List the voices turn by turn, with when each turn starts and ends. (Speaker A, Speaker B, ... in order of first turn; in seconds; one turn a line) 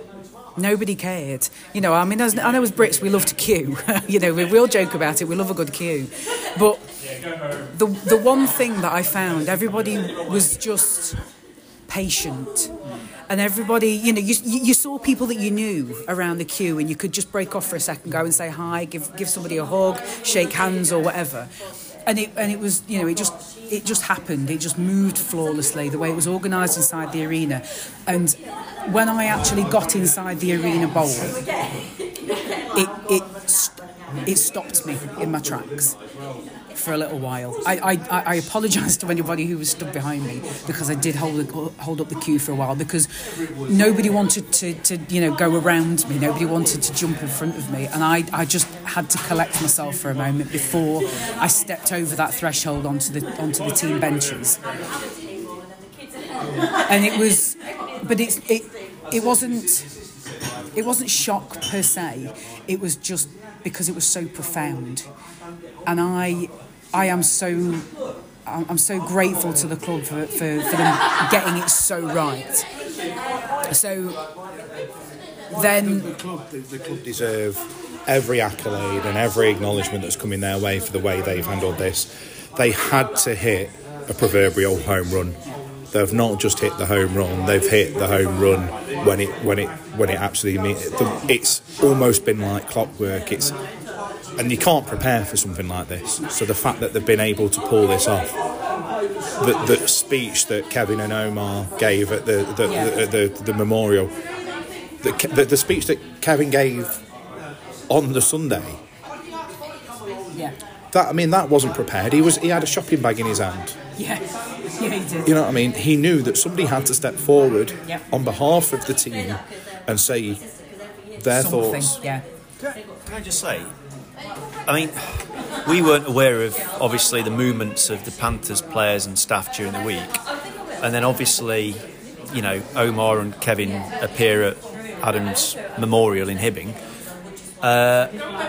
Speaker A: 0.6-6.9
Speaker A: 7.7-11.2
Speaker A: 11.9-12.8
Speaker A: 13.3-21.5
Speaker A: 22.1-31.3
Speaker A: 32.7-36.0
Speaker A: 36.7-43.1
Speaker A: 43.6-54.6
Speaker A: 56.9-59.9
Speaker A: 60.7-65.0
Speaker A: 65.8-67.9
Speaker A: 68.5-72.7
Speaker A: 73.7-74.2
Speaker A: 75.5-76.1
Speaker B: 76.2-93.5
Speaker B: 94.4-98.3
Speaker B: 99.4-104.1
Speaker A: 102.6-102.9
Speaker B: 105.0-107.0
Speaker B: 107.9-108.8
Speaker B: 110.9-113.8
Speaker A: 114.0-115.3
Speaker B: 115.2-120.4
Speaker B: 121.2-122.0
Speaker A: 121.3-122.2
Speaker C: 122.6-123.7
Speaker C: 124.7-130.2
Speaker C: 130.8-131.8
Speaker C: 132.3-136.8
Speaker C: 137.6-138.1